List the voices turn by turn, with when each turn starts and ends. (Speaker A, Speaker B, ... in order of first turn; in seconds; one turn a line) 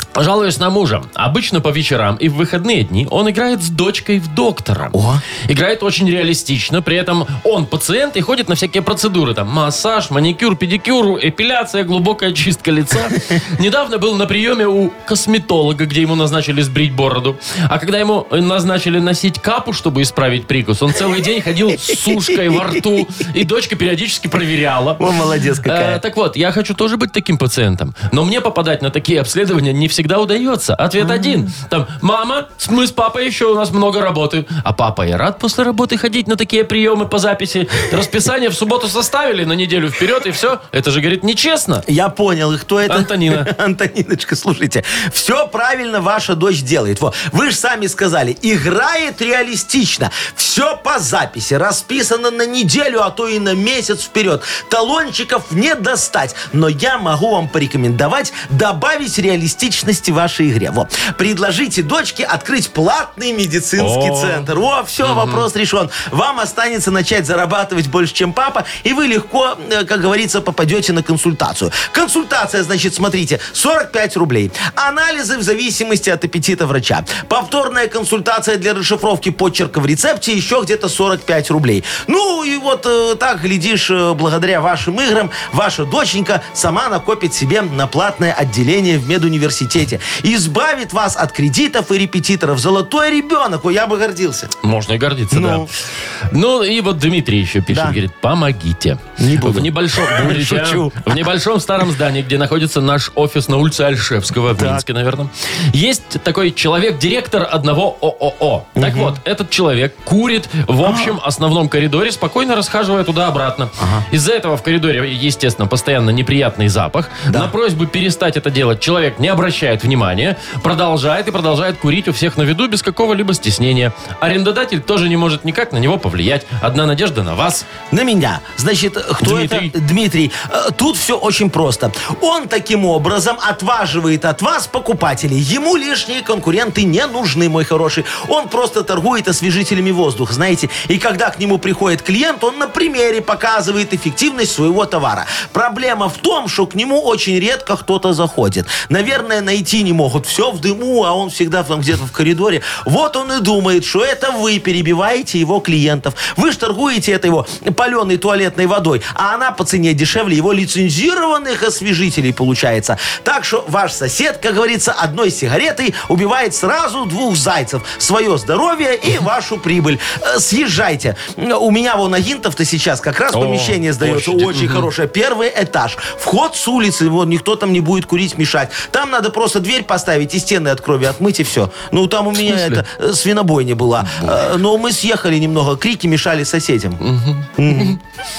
Speaker A: 0.1-25.0
Speaker B: 4.9-5.2
Speaker B: 25.0-26.0
Speaker A: 25.6-41.8
Speaker B: 31.0-31.4
Speaker B: 41.9-94.5
Speaker A: 42.9-43.5
Speaker A: 63.8-64.5
Speaker A: 65.0-65.5
Speaker A: 94.6-95.7
Speaker B: 95.3-95.7
Speaker A: 96.3-127.7
Speaker B: 97.7-98.0
Speaker B: 99.2-101.2
Speaker B: 104.5-104.8
Speaker B: 108.8-109.1
Speaker B: 110.8-111.1
Speaker B: 113.8-114.0
Speaker B: 127.9-187.0
Speaker A: 129.2-129.7
Speaker A: 173.3-174.9
Speaker A: 182.4-182.8
Speaker A: 184.0-184.4
Speaker A: 187.0-188.0
Speaker B: 187.6-188.0